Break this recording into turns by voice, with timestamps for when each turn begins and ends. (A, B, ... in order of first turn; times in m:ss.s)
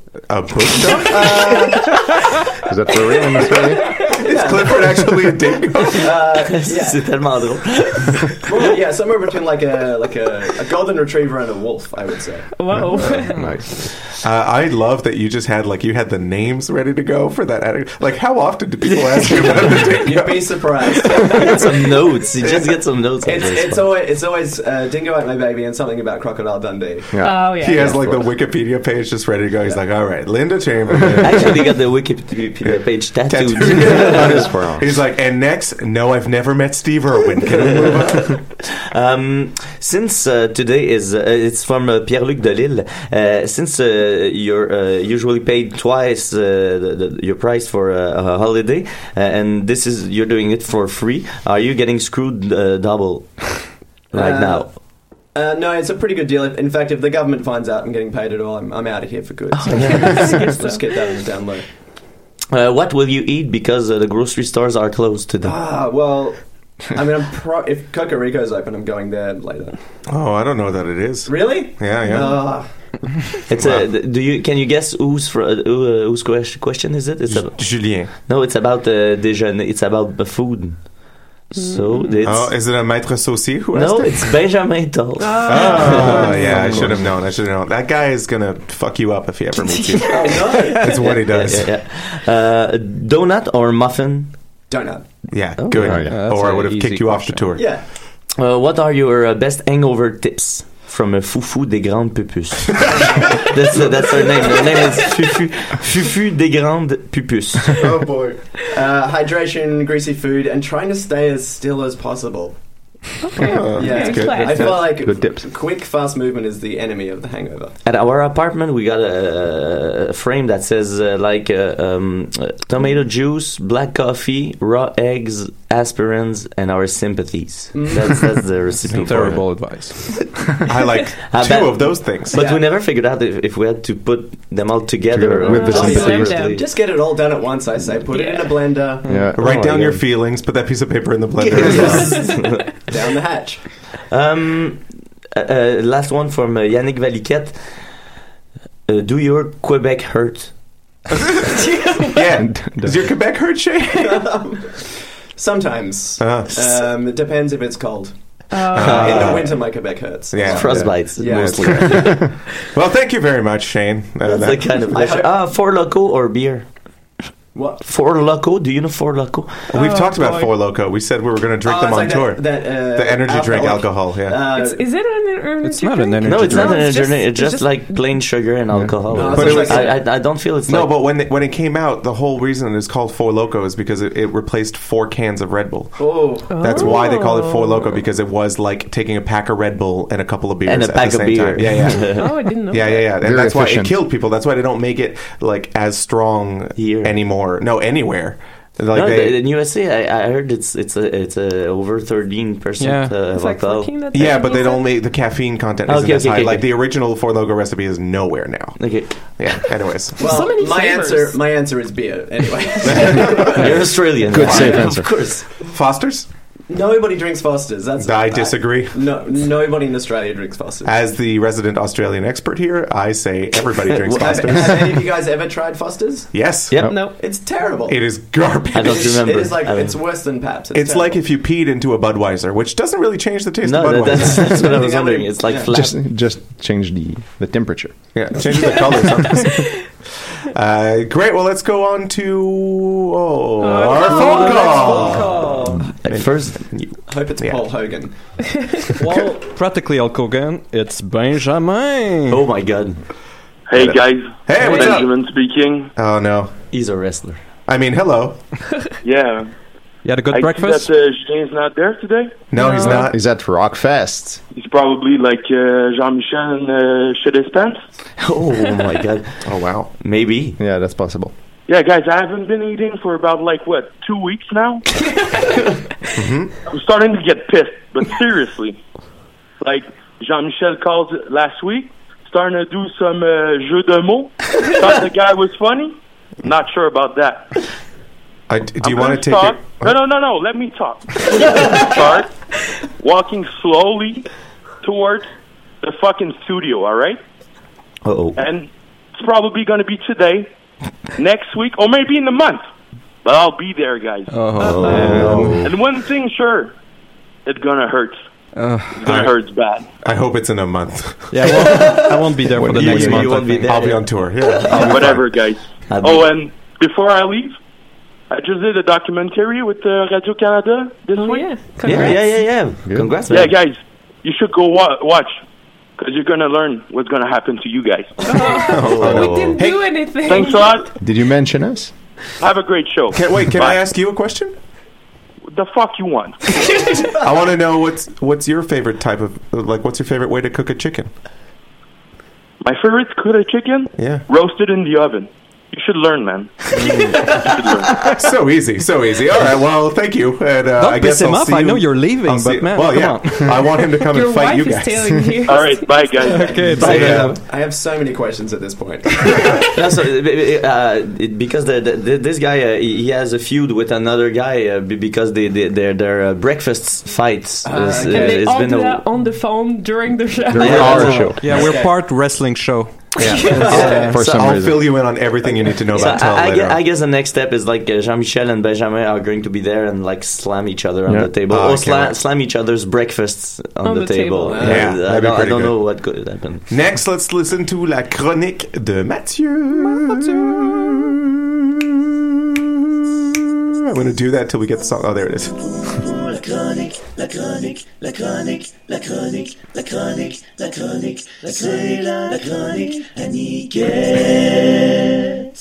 0:00.3-0:01.6 A
0:01.0-0:02.1 B
0:02.6-0:03.9 C
0:04.0-0:07.2 B
0:04.1-0:06.3 A
0:06.5-0:08.5 D
0:08.4-0:12.5 B
0:12.6-0:13.6 E
0:12.8-0:13.9 C
0:14.2-0:21.5 A
0:18.8-0:19.8 D
0:20.0-0:21.8 B
0:21.2-0:23.9 D
0:23.2-0:28.3 B
0:27.1-0:27.4 C
0:27.2-0:28.0 E
0:27.3-0:31.8 A
0:31.2-0:34.5 D
0:32.6-0:38.4 A
0:33.7-0:34.9 C
0:37.5-0:54.7 D
0:54.1-0:54.7 B
0:55.3-1:01.6 B
0:59.5-1:00.6 D
1:00.0-1:00.8 E
1:02.5-1:05.5 D
1:05.4-1:06.4 B
1:06.9-1:09.8 B
1:10.1-1:12.4 A
1:11.3-1:12.7 B
1:12.1-1:12.4 E
1:13.5-1:20.9 D
1:13.6-1:13.9 A
1:17.3-1:18.1 A
1:21.5-1:22.6 D
1:21.6-1:22.2 E
1:22.2-1:24.4 A
1:23.7-1:26.9 D
1:25.2-1:26.5 E
1:25.4-1:31.8 A
1:26.7-1:27.0 C
1:30.0-1:31.3 B
1:31.0-1:34.4 D
1:34.7-1:35.0 B
1:35.3-1:37.7 A
1:35.6-1:36.0 D
1:35.8-1:36.2 C
1:36.0-1:37.5 F
1:37.6-1:37.8 B
1:38.4-1:48.0 D
1:47.8-1:48.4 A
1:48.6-1:52.6 B
1:53.2-1:54.9 E
1:53.4-1:54.9 A
1:53.7-1:57.7 B
1:54.7-1:55.5 C
1:57.8-2:09.5 D
2:07.7-2:08.4 B
2:08.9-2:10.1 F
2:09.0-2:09.4 A
2:10.6-2:12.5 A
2:11.2-2:16.7 D
2:12.3-2:12.7 B
2:15.1-2:16.4 C
2:15.4-2:16.6 E
2:15.6-2:19.2 B
2:18.1-2:18.6 E
2:19.0-2:20.0 C
2:19.3-2:22.3 A
2:21.4-2:22.8 D
2:21.6-2:22.3 B
2:22.9-2:23.6 B
2:24.1-2:27.6 D
2:28.9-2:30.5 D
2:32.1-2:34.3 A
2:32.4-2:33.1 C
2:34.0-2:38.1 B
2:36.2-2:36.8 A
2:38.5-2:39.1 E
2:38.7-2:44.9 A
2:38.7-2:42.2 B
2:38.8-2:39.4 D
2:40.4-2:42.2 D
2:40.6-2:42.3 C
2:44.2-2:46.7 D
2:44.8-2:45.4 B
2:47.6-2:47.8 B
2:47.8-2:49.7 D
2:49.7-2:54.4 A
2:49.7-2:50.5 E
2:51.6-2:54.9 B
2:54.5-2:58.2 E
2:55.6-2:57.1 F
2:56.2-3:01.0 D
2:58.7-2:59.4 C
2:59.1-3:00.1 B
2:59.2-3:19.4 A
3:06.0-3:06.9 B
3:06.5-3:07.8 E
3:10.6-3:12.4 D
3:12.0-3:13.1 E
3:13.2-3:14.0 C
3:16.8-3:17.2 D
3:18.9-3:24.0 D
3:22.8-3:23.2 F
3:23.3-3:24.9 E
3:24.1-3:30.2 A
3:25.9-3:26.7 D
3:28.8-3:29.6 D
3:30.2-3:34.9 B
3:30.2-3:31.4 E
3:32.9-3:33.8 A
3:33.5-3:35.5 D
3:34.3-3:35.1 C
3:35.7-3:36.3 A
3:36.7-3:40.9 B
3:38.0-3:39.1 A
3:40.8-3:45.1 A
3:43.9-3:44.6 D
3:44.2-3:46.3 B
3:46.3-3:47.2 A
3:46.7-3:47.0 D
3:46.9-3:47.1 E
3:46.9-3:48.0 B
3:47.9-3:49.1 A
3:48.7-3:50.0 D
3:48.8-3:51.2 B
3:50.7-3:54.8 A
3:53.6-3:56.0 D
3:54.6-3:55.8 B
3:55.7-3:58.1 C
3:58.1-4:07.7 A
4:03.6-4:05.4 E
4:04.2-4:04.6 F
4:04.8-4:05.4 B
4:06.0-4:06.9 D
4:07.1-4:08.1 B
4:09.0-4:12.4 F
4:12.3-4:13.0 D
4:13.7-4:15.9 G
4:13.8-4:15.2 A
4:14.6-4:15.0 E
4:16.0-4:16.5 A
4:16.7-4:17.4 D
4:17.7-4:18.4 A
4:19.0-4:19.5 G
4:20.0-4:20.9 F
4:20.3-4:22.4 G
4:22.5-4:23.2 A
4:22.6-4:23.1 E
4:23.1-4:24.4 C
4:24.6-4:27.8 G
4:28.2-4:30.6 D
4:29.4-4:29.9 A
4:30.6-4:31.3 C
4:31.7-4:35.6 G
4:36.2-4:36.5 A
4:36.7-4:38.8 G
4:39.6-4:47.6 G
4:48.5-4:50.0 A
4:48.8-4:52.3 G
4:53.0-4:54.3 G
4:54.8-4:55.3 G
4:55.8-4:57.2 G
4:58.0-4:58.4 D
4:58.4-5:00.5 G
5:01.2-5:02.6 G
5:03.2-5:06.7 G
5:04.3-5:05.5 F
5:04.5-5:05.6 D
5:04.9-5:05.7 A
5:04.9-5:05.7 C
5:07.5-5:08.2 G
5:08.6-5:09.1 F
5:08.9-5:09.9 G
5:09.1-5:09.3 A
5:10.0-5:12.0 A
5:11.3-5:13.8 F
5:11.8-5:12.1 D
5:12.5-5:13.3 C
5:12.7-5:15.1 D
5:12.9-5:15.3 A
5:14.8-5:17.6 G
5:15.9-5:16.3 D
5:18.3-5:21.6 G
5:21.2-5:22.5 E
5:21.8-5:23.5 D
5:22.8-5:23.1 C
5:23.3-5:25.4 G
5:26.0-5:28.2 G
5:28.2-5:30.8 E
5:28.7-5:29.8 A
5:28.7-5:29.7 D
5:30.2-5:30.9 G
5:31.0-5:31.9 C
5:32.4-5:33.8 G
5:33.1-5:34.5 A
5:35.5-5:36.9 G
5:37.2-5:41.1 A
5:42.6-5:48.1 G
5:44.0-5:44.2 A
5:48.0-5:55.4 A
5:50.8-5:53.8 F
5:54.1-5:56.5 E
5:55.5-5:56.9 G
5:56.2-5:57.4 F
5:56.5-5:59.7 B
5:56.8-5:57.3 A
5:59.7-6:09.1 D
6:07.6-6:08.5 B
6:07.8-6:11.3 E
6:10.5-6:11.5 C
6:10.6-6:11.7 D
6:10.6-6:12.1 B
6:11.4-6:14.2 F
6:13.2-6:16.8 A
6:13.2-6:13.8 E
6:13.6-6:14.2 B
6:13.7-6:14.8 D
6:14.1-6:14.9 C
6:15.4-6:16.2 B
6:15.9-6:26.7 D
6:21.1-6:21.3 C
6:21.5-6:22.2 A
6:23.8-6:24.7 E
6:24.5-6:25.0 B
6:24.6-6:25.9 A
6:26.7-6:31.2 A
6:33.7-6:35.6 A
6:36.1-6:45.5 D